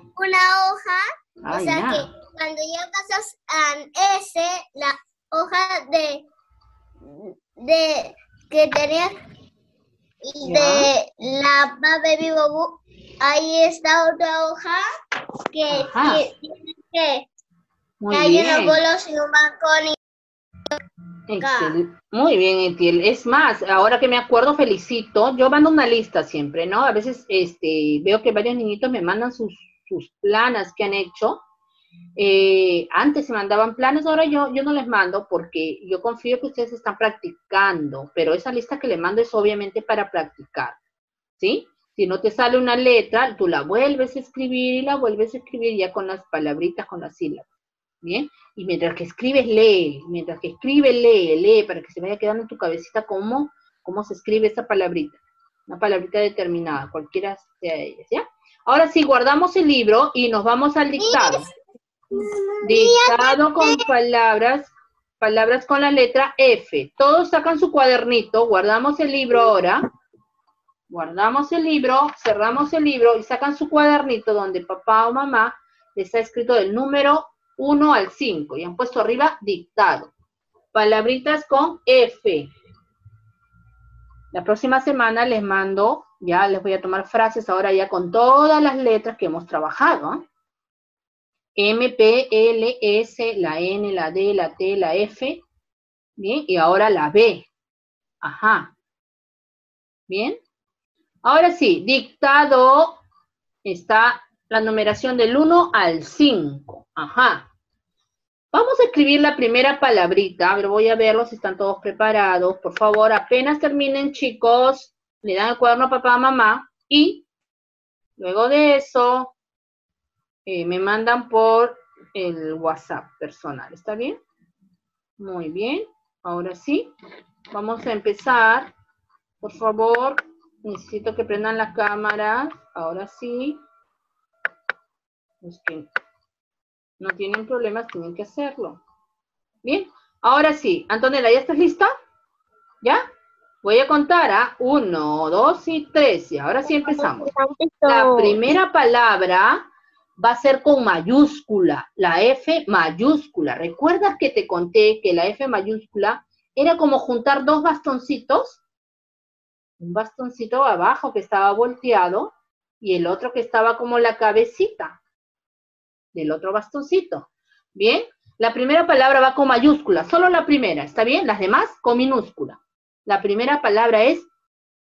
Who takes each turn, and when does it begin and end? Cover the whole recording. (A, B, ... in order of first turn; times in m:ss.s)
0:00.1-0:06.2 A
0:01.4-0:02.0 B
0:07.0-0:09.2 A
0:10.2-0:14.8 A
0:10.4-0:10.9 B
0:15.4-0:17.3 A
0:15.7-0:16.2 B
0:18.0-0:18.8 B
0:18.1-0:19.9 A
0:21.3-0:31.4 B
0:21.4-0:21.7 A
0:32.2-0:40.8 B
0:41.4-0:47.4 B
0:48.0-1:01.5 B
1:01.0-1:01.5 A
1:02.1-1:03.8 A
1:02.6-1:09.8 B
1:10.9-1:20.1 B
1:20.7-1:22.5 B
1:24.3-1:30.2 B
1:31.6-1:35.4 B
1:36.2-1:37.5 B
1:38.2-1:38.7 B
1:40.1-1:40.4 B
1:41.2-1:43.0 B
1:43.6-1:47.5 B
1:48.5-1:57.2 B
1:58.2-1:59.3 B
2:00.4-2:04.2 B
2:05.2-2:06.9 B
2:07.5-2:08.7 B
2:09.4-2:13.6 B
2:15.4-2:15.9 B
2:17.0-2:18.8 B
2:19.6-2:21.9 B
2:23.6-2:27.3 B
2:27.0-2:28.4 A
2:27.8-2:29.6 B
2:30.2-2:38.6 B
2:39.8-2:45.0 B
2:46.1-2:54.3 B